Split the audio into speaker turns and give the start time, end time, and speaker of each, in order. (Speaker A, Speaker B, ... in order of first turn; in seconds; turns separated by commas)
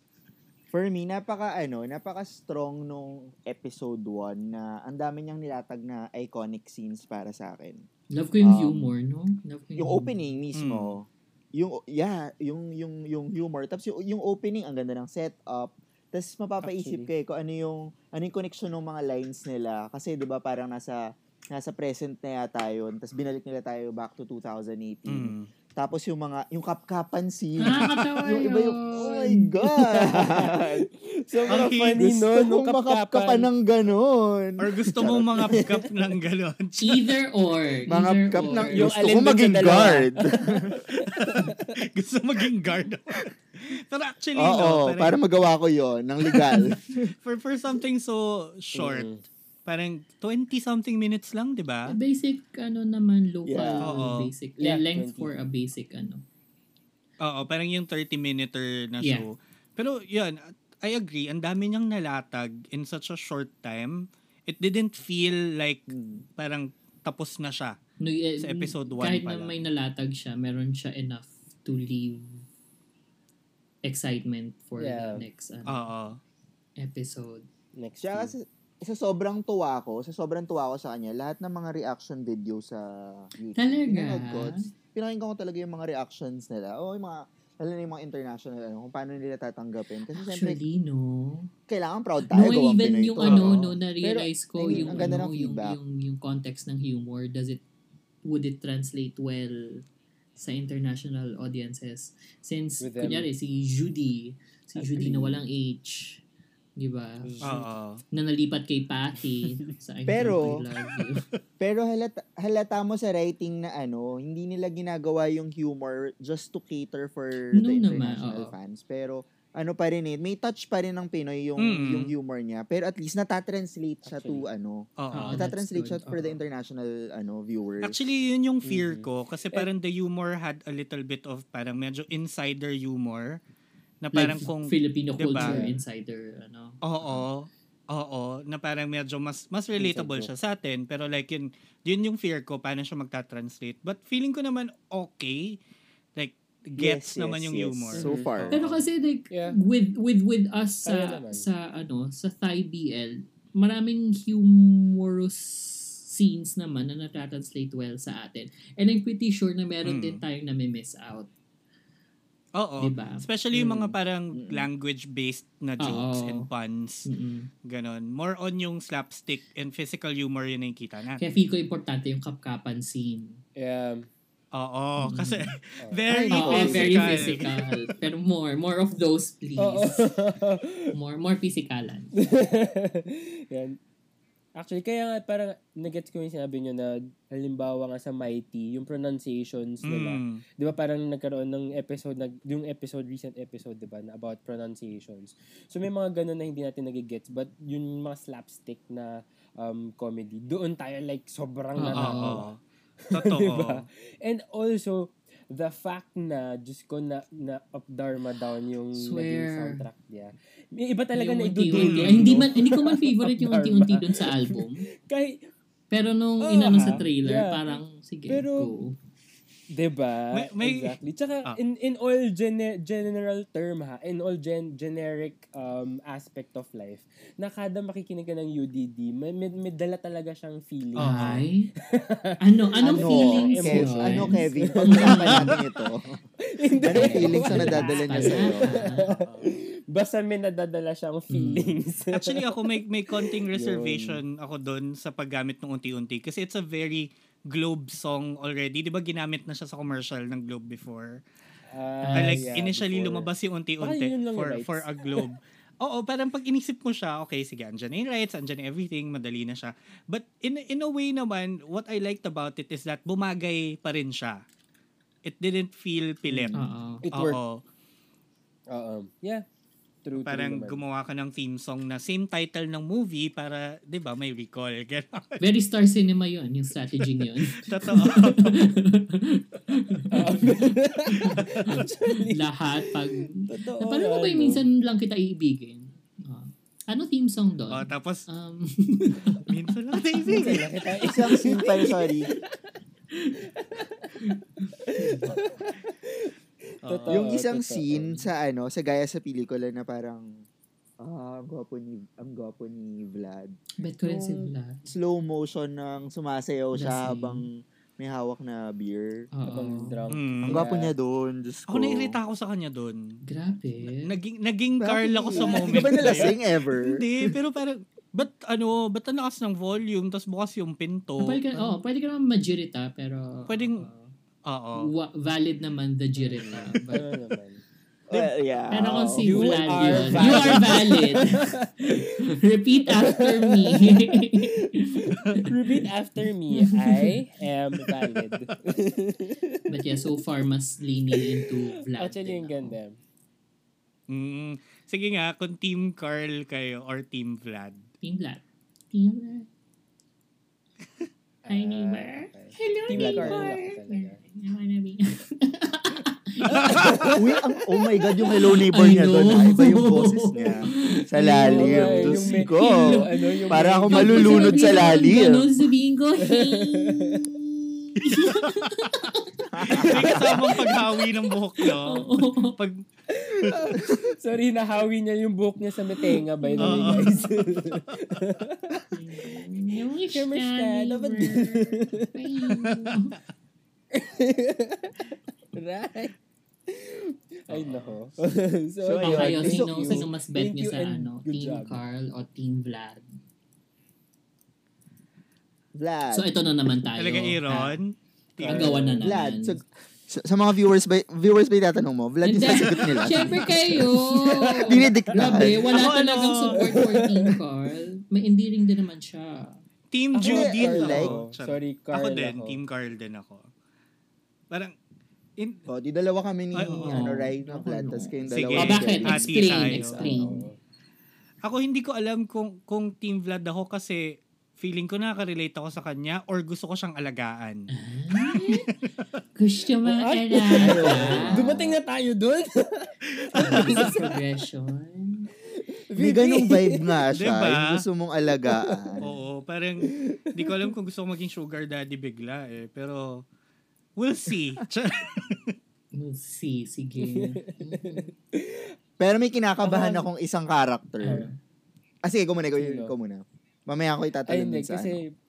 Speaker A: 0.7-7.8, Speaker B: 8.1-10.1, Speaker A: 8.4-8.9, Speaker A: 9.8-30.9, Speaker C: 10.5-10.9, Speaker D: 16.6-17.1, Speaker C: 25.1-25.5, Speaker B: 27.6-29.5, Speaker D: 29.7-33.5, Speaker C: 31.5-32.0, Speaker A: 32.0-35.6, Speaker C: 34.6-37.1, Speaker B: 36.8-38.9, Speaker A: 37.9-40.8, Speaker D: 38.7-41.7, Speaker C: 40.9-45.2, Speaker A: 44.4-47.1, Speaker C: 47.1-49.1, Speaker D: 48.7-49.2, Speaker C: 49.6-52.0, Speaker B: 51.9-56.2, Speaker A: 53.5-53.9, Speaker C: 53.8-54.3, Speaker D: 54.6-55.3, Speaker C: 57.2-67.8, Speaker B: 59.0-59.2, Speaker A: 65.9-66.2, Speaker B: 68.0-72.4, Speaker C: 68.4-69.5, Speaker B: 73.8-75.9, Speaker D: 74.8-75.2, Speaker C: 75.7-76.2, Speaker B: 76.8-77.4, Speaker D: 77.8-78.3, Speaker A: 78.0-90.6, Speaker B: 83.5-84.7, Speaker B: 90.1-91.5, Speaker A: 91.7-93.6, Speaker B: 92.3-97.6, Speaker C: 93.2-93.6, Speaker D: 94.0-95.2, Speaker A: 94.6-95.8, Speaker B: 98.2-99.8, Speaker B: 100.4-106.2, Speaker D: 102.8-103.3, Speaker A: 104.8-105.4, Speaker B: 106.8-107.4, Speaker D: 107.2-107.7, Speaker C: 107.4-108.0, Speaker B: 108.1-111.2, Speaker A: 110.1-110.6, Speaker A: 111.6-128.0, Speaker B: 117.5-118.5, Speaker C: 121.6-122.1, Speaker D: 124.0-124.5, Speaker C: 125.0-125.4, Speaker B: 125.1-126.4, Speaker C: 127.8-133.4, Speaker D: 128.6-129.1, Speaker C: 134.0-135.6, Speaker B: 134.1-137.2, Speaker D: 135.4-135.8, Speaker C: 136.8-145.6, Speaker D: 139.8-140.3, Speaker C: 146.2-148.8, Speaker A: 146.8-148.5, Speaker D: 147.9-148.6, Speaker B: 148.5-161.3, Speaker D: 149.3-149.6, Speaker D: 150.8-151.5, Speaker C: 159.8-160.2, Speaker C: 162.6-167.1, Speaker B: 162.8-163.2, Speaker D: 163.5-163.9, Speaker A: 164.3-164.7, Speaker B: 165.8-166.5, Speaker B: 167.0-167.5, Speaker C: 167.6-171.2, Speaker B: 171.2-173.4, Speaker D: 173.6-174.1, Speaker C: 174.5-177.5, Speaker B: 175.0-175.6, Speaker A: 176.1-177.3, Speaker B: 176.3-180.1, Speaker D: 179.6-180.9, Speaker B: 180.9-182.1, Speaker D: 182.2-183.8, Speaker D: 184.6-202.5, Speaker C: 189.8-190.4, Speaker B: 201.8-202.4, Speaker C: 202.0-202.6, Speaker D: 203.1-215.4, Speaker C: 203.1-203.8, Speaker B: 208.9-209.8, Speaker B: 211.1-214.8, Speaker C: 211.7-212.4, Speaker B: 215.9-218.9, Speaker D: 216.4-217.8, Speaker D: 218.3-218.7, Speaker D: 219.7-235.5, Speaker C: 220.3-221.6, Speaker C: 230.9-231.4, Speaker B: 230.9-231.7, Speaker B: 232.4-235.6, Speaker A: 232.8-236.1, Speaker D: 236.4-242.6, Speaker A: 236.8-238.8, Speaker B: 236.9-239.1, Speaker C: 239.0-239.5, Speaker B: 241.3-241.8, Speaker C: 242.1-251.2, Speaker D: 243.1-244.2, Speaker D: 251.7-253.3, Speaker B: 252.0-252.5, Speaker C: 252.2-264.4, Speaker D: 253.8-255.2, Speaker C: 265.2-266.6, Speaker A: 266.3-266.7, Speaker B: 266.5-267.0, Speaker D: 267.0-267.4, Speaker C: 267.1-267.6, Speaker D: 268.7-269.4, Speaker D: 270.0-270.8, Speaker C: 270.1-275.4, Speaker B: 275.4-289.5, Speaker C: 277.6-278.6, Speaker D: 280.1-282.9, Speaker D: 283.5-284.6, Speaker C: 287.7-288.2, Speaker C: 289.5-290.7, Speaker D: 290.2-292.2, Speaker A: 291.0-292.3, Speaker B: 293.1-293.4, Speaker D: 293.5-294.2, Speaker B: 294.2-295.4, Speaker D: 294.8-296.3, Speaker D: 296.8-298.3, Speaker C: 296.8-297.2, Speaker A: 297.1-300.4, Speaker A: 301.0-309.2, Speaker B: 303.8-304.9, Speaker B: 306.8-307.4, Speaker B: 309.3-310.3, Speaker D: 309.4-310.9, Speaker C: 310.1-310.6, Speaker A: 310.5-312.1, Speaker C: 311.7-313.2, Speaker B: 313.2-314.1, Speaker C: 314.0-321.4, Speaker A: 314.8-317.3, Speaker D: 315.4-316.3, Speaker B: 321.2-324.1, Speaker C: 323.5-323.9, Speaker C: 324.4-324.9, Speaker B: 324.8-327.1, Speaker D: 326.2-327.6, Speaker A: 328.1-330.5, Speaker B: 328.7-335.8, Speaker D: 329.2-332.0, Speaker D: 332.9-340.1, Speaker B: 336.5-337.1, Speaker C: 338.1-338.5, Speaker B: 339.7-342.8, Speaker D: 341.1-343.0, Speaker C: 344.1-347.9, Speaker B: 348.0-349.5, Speaker D: 351.4-354.2, Speaker B: 351.5-357.1, Speaker A: 352.9-353.5, Speaker D: 356.5-357.2, Speaker C: 356.6-357.1, Speaker A: 357.1-365.4, Speaker B: 357.8-367.3, Speaker D: 361.3-364.9, Speaker D: 366.2-367.3, Speaker B: 367.9-372.6, Speaker C: 368.2-368.5, Speaker A: 369.5-370.3, Speaker C: 369.8-372.8, Speaker D: 369.8-370.2, Speaker D: 373.1-378.9, Speaker A: 373.5-374.0, Speaker B: 376.4-377.1, Speaker C: 376.6-378.2, Speaker B: 378.9-383.2, Speaker D: 380.1-382.1, Speaker C: 382.7-383.0, Speaker D: 383.9-386.1, Speaker D: 386.7-391.8, Speaker C: 387.5-388.0, Speaker A: 388.8-390.1, Speaker B: 389.0-393.2, Speaker A: 395.8-396.3, Speaker B: 396.1-397.8, Speaker C: 397.0-398.7, Speaker D: 398.4-399.1, Speaker B: 398.4-399.6, Speaker A: 399.0-403.5, Speaker B: 402.2-409.6, Speaker D: 403.4-405.5, Speaker A: 404.6-405.6, Speaker C: 405.7-406.7, Speaker D: 406.5-407.4, Speaker C: 409.9-413.5, Speaker D: 410.1-412.6, Speaker A: 410.2-411.1, Speaker A: 415.7-419.4, Speaker C: 416.5-417.0, Speaker B: 416.6-420.5, Speaker C: 418.3-420.1, Speaker D: 419.6-420.6, Speaker C: 421.4-427.7, Speaker B: 427.7-428.7, Speaker C: 428.3-428.7, Speaker B: 429.4-431.5, Speaker D: 429.8-434.1, Speaker A: 430.6-431.8, Speaker C: 433.3-433.8, Speaker B: 433.4-435.3, Speaker D: 435.5-437.0, Speaker A: 436.0-439.1, Speaker C: 437.2-437.8, Speaker D: 438.3-439.1, Speaker C: 439.0-443.2, Speaker D: 439.8-440.7, Speaker C: 444.0-445.5, Speaker B: 445.9-448.1, Speaker D: 447.0-448.7, Speaker A: 449.0-451.2, Speaker D: 449.6-450.1, Speaker B: 451.0-451.4, Speaker A: 452.0-455.0, Speaker D: 452.6-452.9, Speaker D: 454.3-455.1